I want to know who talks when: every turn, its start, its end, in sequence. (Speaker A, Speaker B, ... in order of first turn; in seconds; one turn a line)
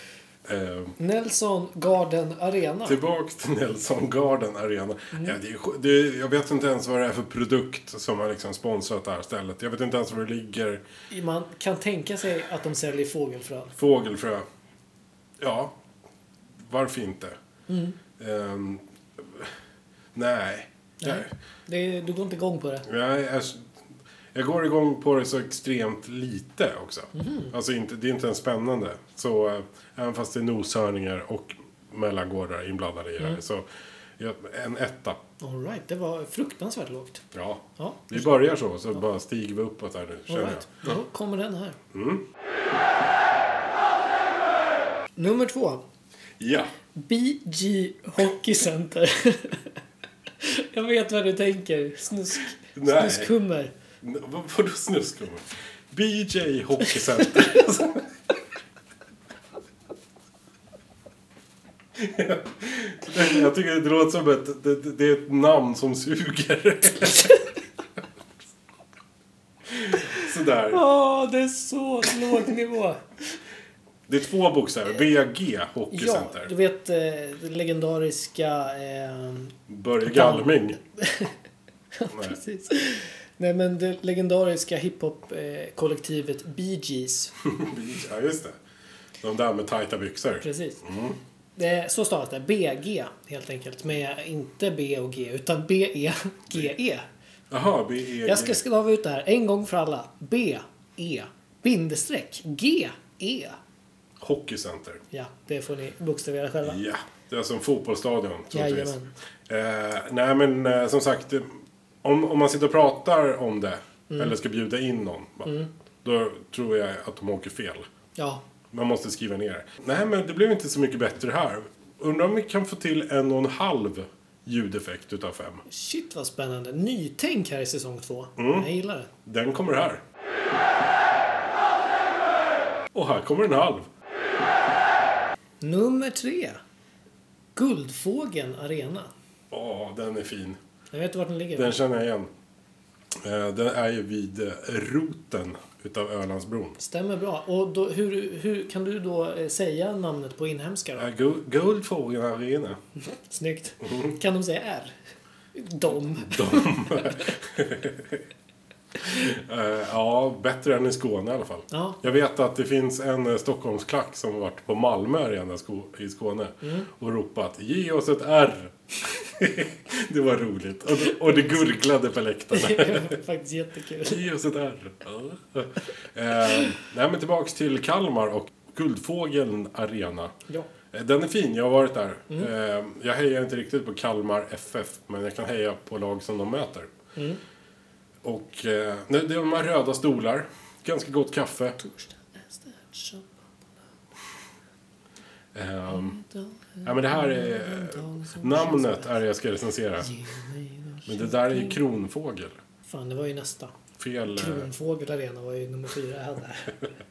Speaker A: 0.4-0.9
Speaker B: 1.0-3.0
Speaker A: 2.9-10.8
Speaker B: 5.1-5.4
Speaker B: 11.1-13.7
Speaker A: 13.8-14.4
Speaker A: 15.4-15.8
Speaker A: 16.6-17.4
Speaker B: 17.7-18.0
Speaker A: 18.2-19.5
Speaker A: 20.1-21.3
Speaker B: 21.0-22.9
Speaker A: 22.8-23.7
Speaker A: 24.3-33.6
Speaker B: 27.1-27.5
Speaker A: 34.2-35.2
Speaker B: 35.4-37.2
Speaker A: 37.3-40.6
Speaker B: 37.8-38.3
Speaker B: 40.3-41.8
Speaker A: 41.9-42.3
Speaker B: 45.1-45.8
Speaker A: 46.4-46.7
Speaker B: 47.0-49.8
Speaker B: 50.4-53.7
Speaker A: 52.8-53.3
Speaker A: 54.0-58.1
Speaker B: 57.2-57.6
Speaker A: 62.0-67.3
Speaker A: 69.7-70.8
Speaker B: 70.7-73.0
Speaker A: 74.1-76.5
Speaker B: 75.9-81.3
Speaker A: 79.7-80.8
Speaker B: 82.0-87.3
Speaker A: 82.1-82.4
Speaker A: 87.4-88.5
Speaker A: 89.2-91.2
Speaker B: 90.4-90.8
Speaker B: 91.6-97.1
Speaker A: 97.5-98.6
Speaker B: 98.2-103.6
Speaker A: 104.2-105.0
Speaker B: 105.1-106.8
Speaker A: 106.6-109.0
Speaker B: 108.5-109.1
Speaker A: 109.5-117.9
Speaker B: 114.1-114.3
Speaker B: 115.5-115.7
Speaker B: 118.2-118.4
Speaker A: 118.7-125.6
Speaker B: 125.7-129.1
Speaker A: 128.4-130.0
Speaker A: 132.9-133.9
Speaker B: 135.6-136.6
Speaker B: 137.6-139.1
Speaker A: 139.5-140.6
Speaker B: 140.9-141.8
Speaker A: 141.6-142.3
Speaker A: 143.2-146.8
Speaker B: 146.8-151.1
Speaker A: 151.0-152.8
Speaker B: 153.0-154.9
Speaker A: 153.8-154.1
Speaker B: 155.5-157.3
Speaker A: 156.2-158.2
Speaker A: 159.0-173.2
Speaker B: 161.7-162.0
Speaker B: 166.6-166.9
Speaker B: 172.5-174.3
Speaker A: 174.0-180.4
Speaker A: 180.9-186.9
Speaker A: 188.2-191.8
Speaker B: 191.8-193.7
Speaker A: 195.5-196.2
Speaker B: 195.9-199.2
Speaker A: 196.8-200.1
Speaker B: 200.0-201.8
Speaker A: 201.1-202.6
Speaker B: 202.8-203.7
Speaker A: 204.0-204.7
Speaker B: 204.3-206.8